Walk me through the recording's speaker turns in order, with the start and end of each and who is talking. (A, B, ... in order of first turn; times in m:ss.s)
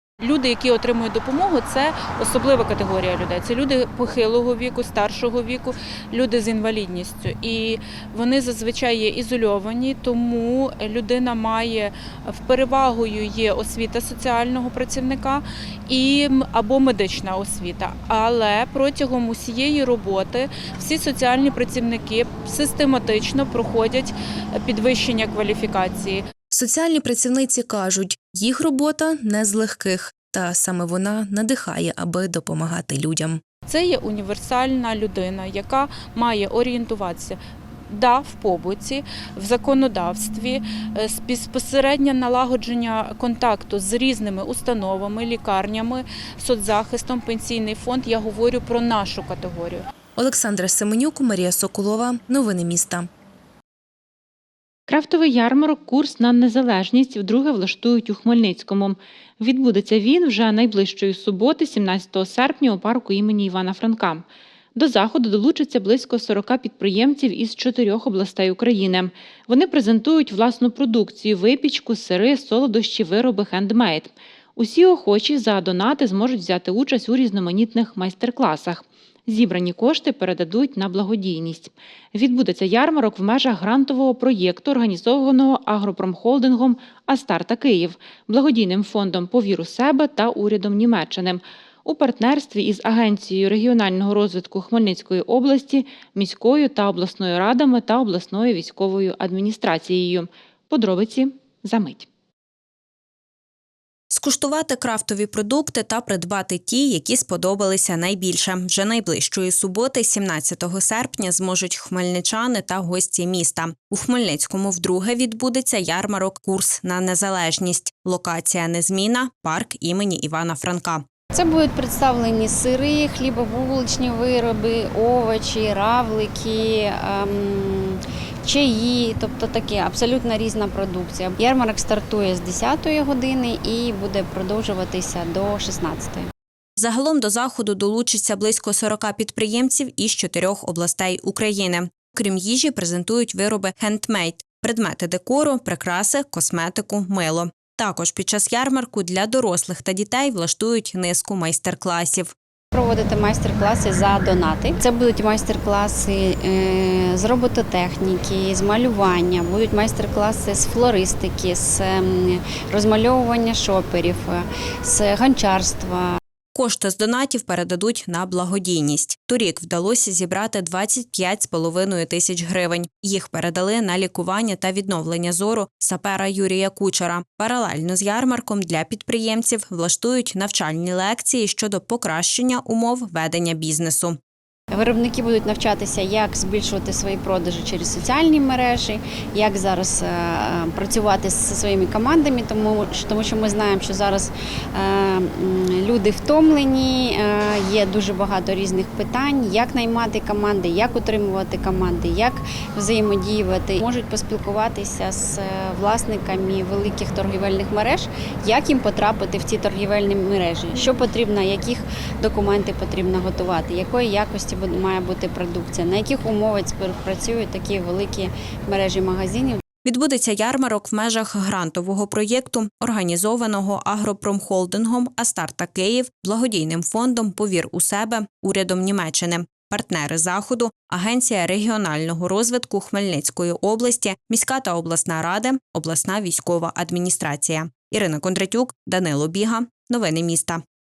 0:00.2-0:26.2 A
0:26.5-0:33.4 B
0:33.7-0:49.8 A
0:50.2-0:53.1 B
0:54.9-1:04.2 C
1:04.8-1:42.1 C
1:44.1-2:01.0 D
2:01.3-2:16.3 E
2:16.8-2:32.3 D
2:32.7-2:46.2 E
2:46.5-3:04.2 D
3:04.7-3:39.6 E
3:39.8-4:00.6 D